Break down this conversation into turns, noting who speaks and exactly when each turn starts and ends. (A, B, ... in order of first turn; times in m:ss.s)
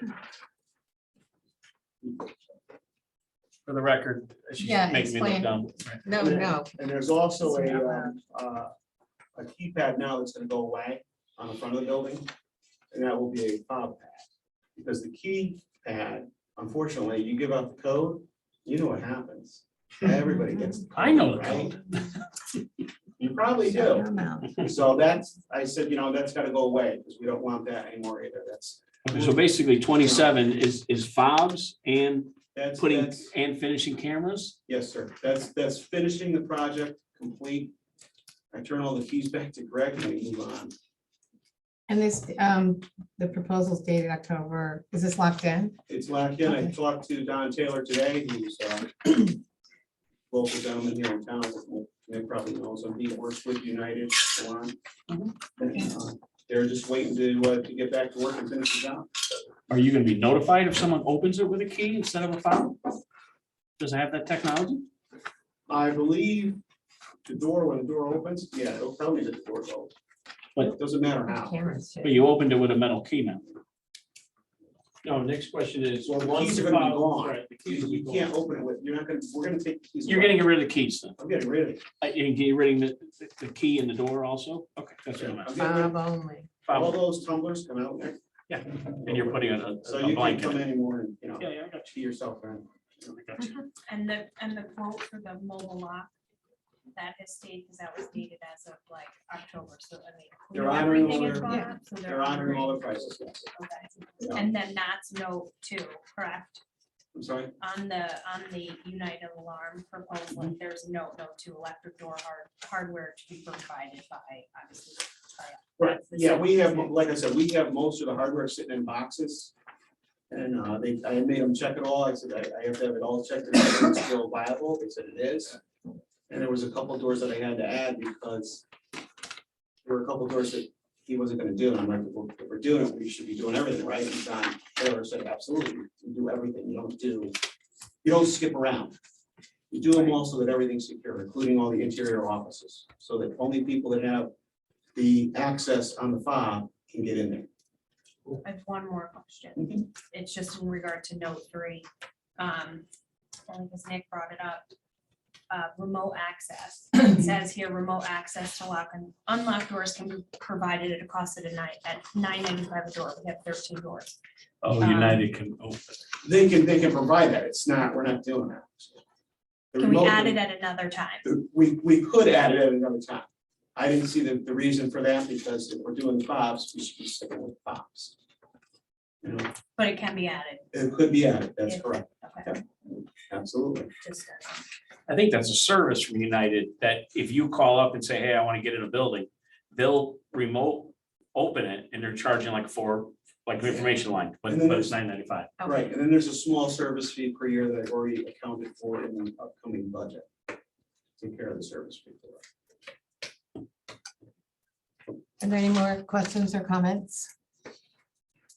0:03.6-0:06.0 A
0:04.6-0:06.7 B
0:06.2-0:08.7 C
0:07.4-0:08.1 B
0:09.3-0:12.3 C
0:12.9-0:21.7 C
0:21.0-0:22.1 A
0:23.2-0:30.4 C
0:23.7-0:24.6 B
0:29.0-0:34.6 A
0:32.5-0:33.3 C
0:34.7-0:37.7 C
0:38.5-0:40.7 C
0:41.9-0:45.7 B
0:45.9-0:49.4 C
0:46.5-0:46.7 B
0:50.3-0:54.8 C
0:55.6-0:59.1 C
0:59.7-1:02.8 A
1:03.8-1:04.8 A
1:05.7-1:06.6 C
1:07.2-1:09.9 C
1:10.6-1:11.7 C
1:11.3-1:12.2 B
1:12.0-1:13.5 A
1:15.0-1:18.3 A
1:16.0-1:20.5 C
1:20.0-1:21.1 A
1:21.2-1:21.8 C
1:22.0-1:25.5 A
1:25.1-1:26.0 C
1:25.6-1:26.5 B
1:26.6-1:27.0 A
1:26.7-1:28.2 C
1:28.5-1:30.6 A
1:29.0-1:33.1 C
1:31.4-1:31.9 A
1:33.1-1:33.5 A
1:33.9-1:36.1 D
1:36.9-1:42.9 D
1:40.5-1:43.5 C
1:43.5-1:46.6 D
1:47.1-1:47.5 C
1:47.6-1:56.9 D
1:55.8-1:59.5 C
2:00.3-2:05.6 C
2:06.3-2:08.6 C
2:09.8-2:17.3 C
2:18.0-2:18.9 C
2:19.7-2:24.3 C
2:24.9-2:27.5 C
2:28.4-2:31.9 D
2:29.6-2:29.8 C
2:32.4-2:32.8 D
2:33.5-2:34.7 D
2:35.5-2:44.2 D
2:44.6-2:46.0 A
2:44.8-2:45.2 D
2:46.2-2:49.0 C
2:49.7-2:50.4 C
2:49.8-2:51.2 D
2:51.2-2:53.2 C
2:53.8-2:58.1 C
2:59.2-2:59.5 C
2:59.8-3:00.6 D
3:00.7-3:03.9 C
3:01.7-3:02.5 D
3:04.0-3:04.6 D
3:05.1-3:15.5 A
3:14.4-3:15.0 C
3:15.6-3:20.3 C
3:21.2-3:22.4 C
3:25.4-3:27.3 B